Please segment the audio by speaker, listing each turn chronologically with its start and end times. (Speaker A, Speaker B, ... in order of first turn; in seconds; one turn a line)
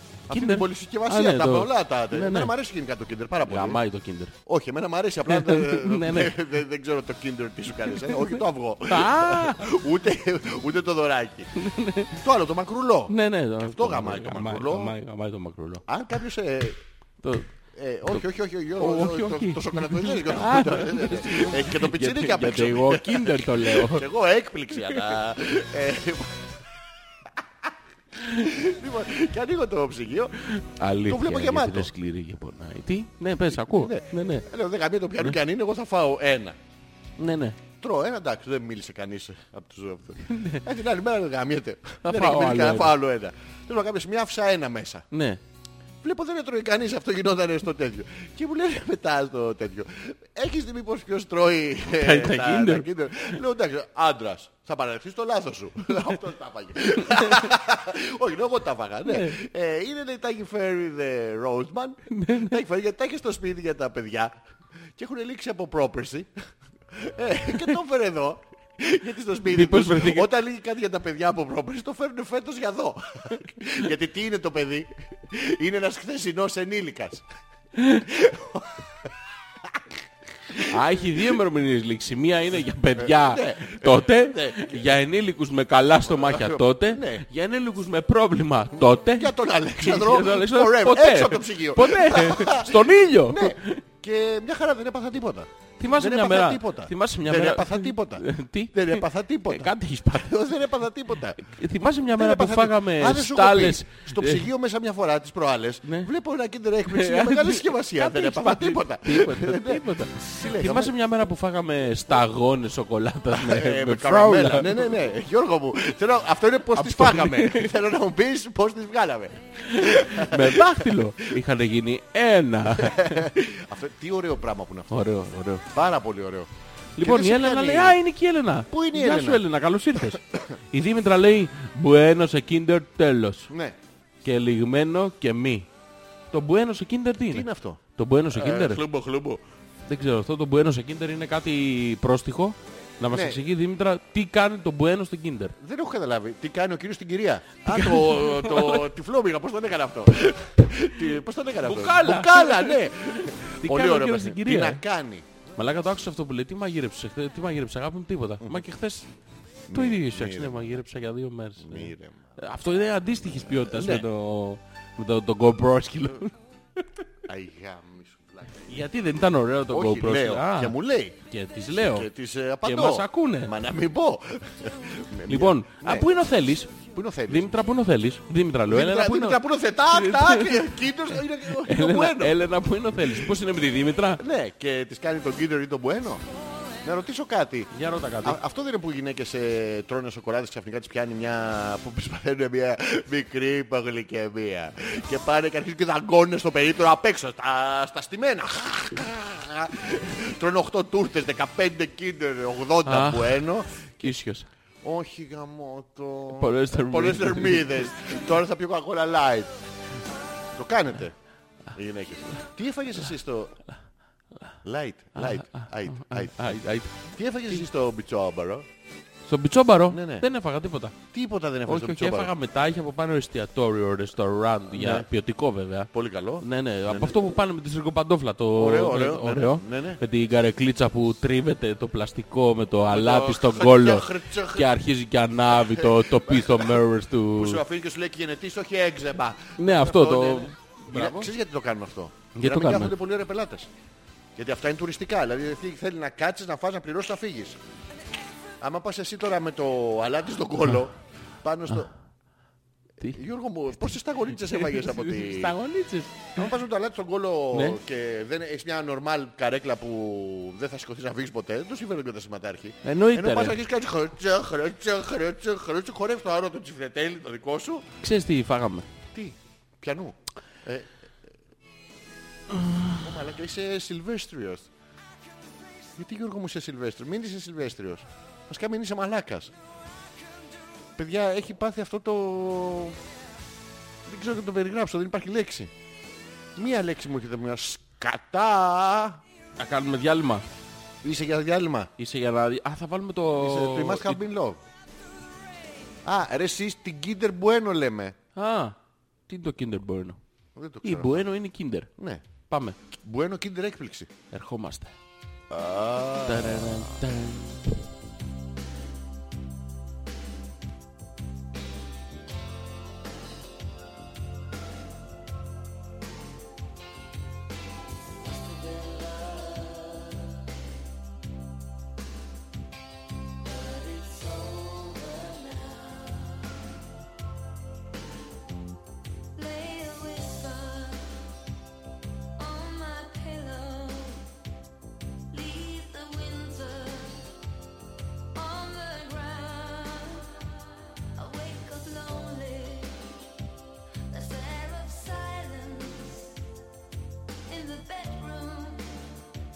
Speaker A: 0.3-3.8
Speaker B: 0.3-2.5
Speaker B: 3.5-4.3
Speaker A: 4.5-11.5
Speaker B: 5.3-6.3
Speaker B: 8.0-9.7
Speaker B: 11.6-12.2
Speaker A: 12.1-14.9
Speaker B: 13.1-15.8
Speaker A: 15.9-16.8
Speaker B: 17.2-17.5
Speaker A: 17.7-26.6
Speaker B: 18.8-24.1
Speaker A: 27.4-30.4
Speaker B: 30.4-34.5
Speaker A: 31.1-31.9
Speaker A: 33.5-36.6
Speaker B: 37.2-37.6
Speaker A: 37.8-45.0
Speaker B: 40.2-40.6
Speaker B: 42.0-42.9
Speaker B: 45.1-45.4
Speaker A: 46.0-64.4
Speaker B: 52.0-52.9
Speaker B: 57.1-57.5
Speaker B: 59.1-59.4
Speaker B: 62.1-62.6
Speaker A: 65.0-77.2
Speaker B: 69.5-70.3
Speaker B: 77.8-78.1
Speaker A: 78.0-79.1
Speaker A: 80.5-81.2
Speaker B: 80.6-93.8
Speaker A: 83.0-84.8
Speaker A: 86.1-87.2
Speaker A: 89.0-101.5
Speaker B: 95.8-100.4
Speaker B: 101.4-104.5
Speaker A: 102.1-110.9
Speaker B: 105.8-106.1
Speaker B: 106.8-114.9
Speaker A: 113.3-121.3
Speaker B: 116.7-117.7
Speaker B: 119.6-123.3
Speaker A: 122.7-125.0
Speaker B: 124.9-125.6
Speaker A: 125.7-128.0
Speaker B: 127.0-133.5
Speaker A: 128.7-129.4
Speaker A: 130.0-130.4
Speaker A: 133.5-133.8
Speaker B: 134.2-135.7
Speaker B: 136.3-138.8
Speaker A: 137.3-139.4
Speaker B: 139.9-145.5
Speaker A: 143.1-143.4
Speaker A: 145.6-155.2
Speaker B: 147.6-148.9
Speaker B: 151.6-154.8
Speaker B: 155.6-159.1
Speaker A: 159.7-160.8
Speaker B: 159.7-167.0
Speaker A: 161.6-162.3
Speaker A: 163.3-164.1
Speaker A: 167.3-168.8
Speaker B: 168.7-172.1
Speaker A: 169.7-171.2
Speaker A: 171.7-176.1
Speaker B: 172.6-173.5
Speaker B: 175.3-176.7
Speaker A: 176.7-177.5
Speaker B: 177.3-180.9
Speaker A: 178.7-182.4
Speaker B: 181.5-184.2
Speaker A: 184.2-186.2
Speaker A: 186.8-187.7
Speaker B: 187.7-188.4
Speaker A: 188.2-204.2
Speaker B: 202.8-203.4
Speaker B: 204.0-204.5
Speaker A: 204.8-209.5
Speaker B: 206.3-207.9
Speaker A: 210.5-211.1
Speaker A: 211.7-213.6
Speaker A: 214.6-218.7
Speaker B: 215.1-217.0
Speaker B: 219.3-221.0
Speaker A: 219.9-220.2
Speaker A: 221.1-222.3
Speaker B: 221.7-225.9
Speaker A: 224.7-225.1
Speaker A: 225.9-227.2
Speaker B: 226.4-237.6
Speaker A: 228.6-230.0
Speaker A: 232.9-234.7
Speaker A: 235.5-236.8
Speaker A: 237.3-243.7
Speaker B: 239.6-241.3
Speaker B: 242.3-242.9
Speaker A: 244.3-247.6
Speaker A: 248.6-251.9
Speaker A: 253.1-255.6
Speaker B: 254.5-256.5
Speaker A: 256.3-267.9
Speaker B: 257.5-257.8
Speaker B: 262.8-263.6
Speaker B: 268.0-268.9
Speaker A: 269.1-271.1
Speaker B: 272.5-273.0
Speaker A: 273.0-274.7
Speaker A: 275.9-279.5
Speaker A: 280.9-283.0
Speaker A: 284.1-285.7
Speaker A: 286.6-289.2
Speaker B: 289.6-290.4
Speaker A: 291.0-291.9
Speaker B: 292.0-294.2
Speaker A: 293.4-294.6
Speaker A: 296.0-298.1
Speaker B: 298.3-298.8
Speaker B: 299.3-300.2
Speaker A: 300.5-301.3
Speaker B: 300.8-301.9
Speaker A: 302.0-302.2
Speaker B: 302.5-302.8
Speaker A: 302.9-304.1
Speaker B: 304.3-304.9
Speaker A: 305.5-307.0
Speaker B: 306.2-307.7
Speaker C: 318.5-320.1
Speaker C: 323.7-326.5
Speaker C: 329.3-331.2
Speaker C: 332.4-334.3
Speaker C: 335.3-337.3
Speaker C: 338.3-343.1
Speaker C: 344.1-346.4
Speaker C: 347.5-349.0